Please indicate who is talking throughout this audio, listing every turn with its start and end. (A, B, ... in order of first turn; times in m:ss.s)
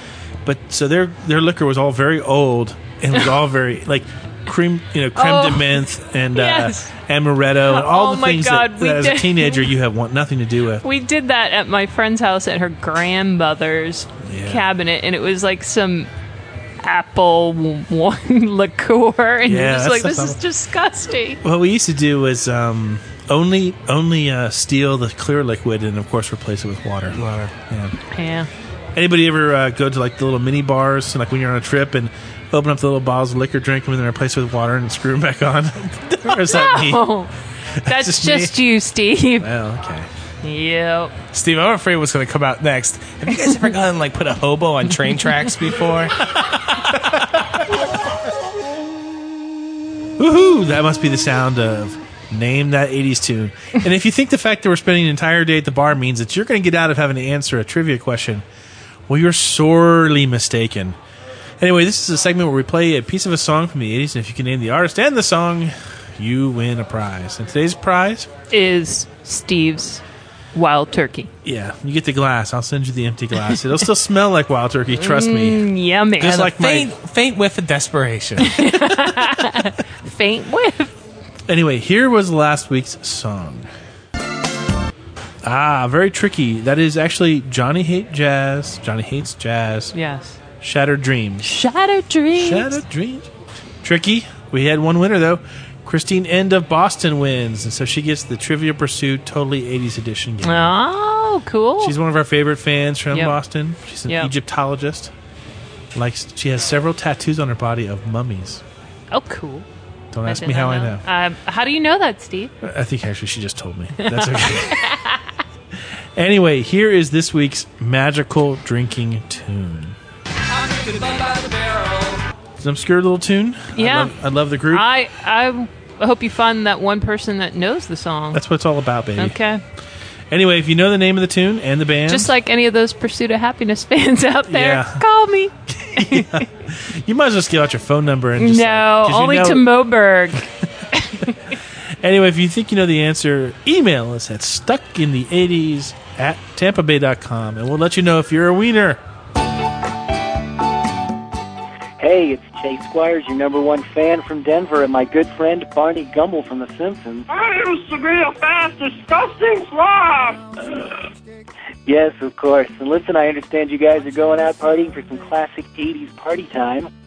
0:00.4-0:10.8 A
0:05.2-0:05.8 B
0:06.3-0:06.9 B
0:07.6-0:09.7 B
0:10.8-0:16.1 B
0:14.2-0:14.7 A
0:16.8-0:21.4 B
0:19.4-0:20.4 A
0:21.4-0:28.0 A
0:27.1-0:27.5 C
0:28.1-0:28.5 B
0:29.0-0:37.2 A
0:36.4-0:37.3 B
0:37.8-0:38.7 A
0:37.8-0:39.5 B
0:39.4-0:40.1 A
0:40.4-0:41.1 B
0:41.3-0:46.2 C
0:46.7-0:47.2 A
0:50.2-0:58.4 A
0:59.1-1:01.0 A
1:01.6-1:08.3 A
1:08.5-1:10.0 B
1:10.5-1:11.3 B
1:11.4-1:15.6 A
1:15.0-1:16.5 B
1:16.2-1:16.9 A
1:16.2-1:18.6 C
1:18.4-1:20.9 B
1:21.5-1:23.7 A
1:25.4-1:29.9 A
1:29.9-1:30.4 B
1:30.6-1:31.5 A
1:31.4-1:32.8 B
1:32.3-1:33.3 A
1:33.8-1:40.8 A
1:40.4-1:41.9 B
1:41.8-1:45.1 A
1:43.1-1:43.4 B
1:44.1-1:44.3 B
1:45.9-1:48.6 A
1:49.1-1:49.6 B
1:50.1-1:51.0 A
1:50.2-1:52.5 B
1:52.6-1:54.8 A
1:54.0-1:55.2 B
1:56.2-2:00.0 A
2:02.6-2:04.9 A
2:03.7-2:04.1 B
2:04.7-2:08.4 B
2:08.3-2:09.4 A
2:09.2-2:09.6 B
2:10.3-2:12.3 A
2:12.1-2:16.4 B
2:14.4-2:15.0 A
2:15.7-2:19.8 A
2:18.4-2:21.4 B
2:22.0-2:29.0 A
2:32.0-2:37.2 D
2:37.3-2:41.1 E
2:41.8-2:46.9 D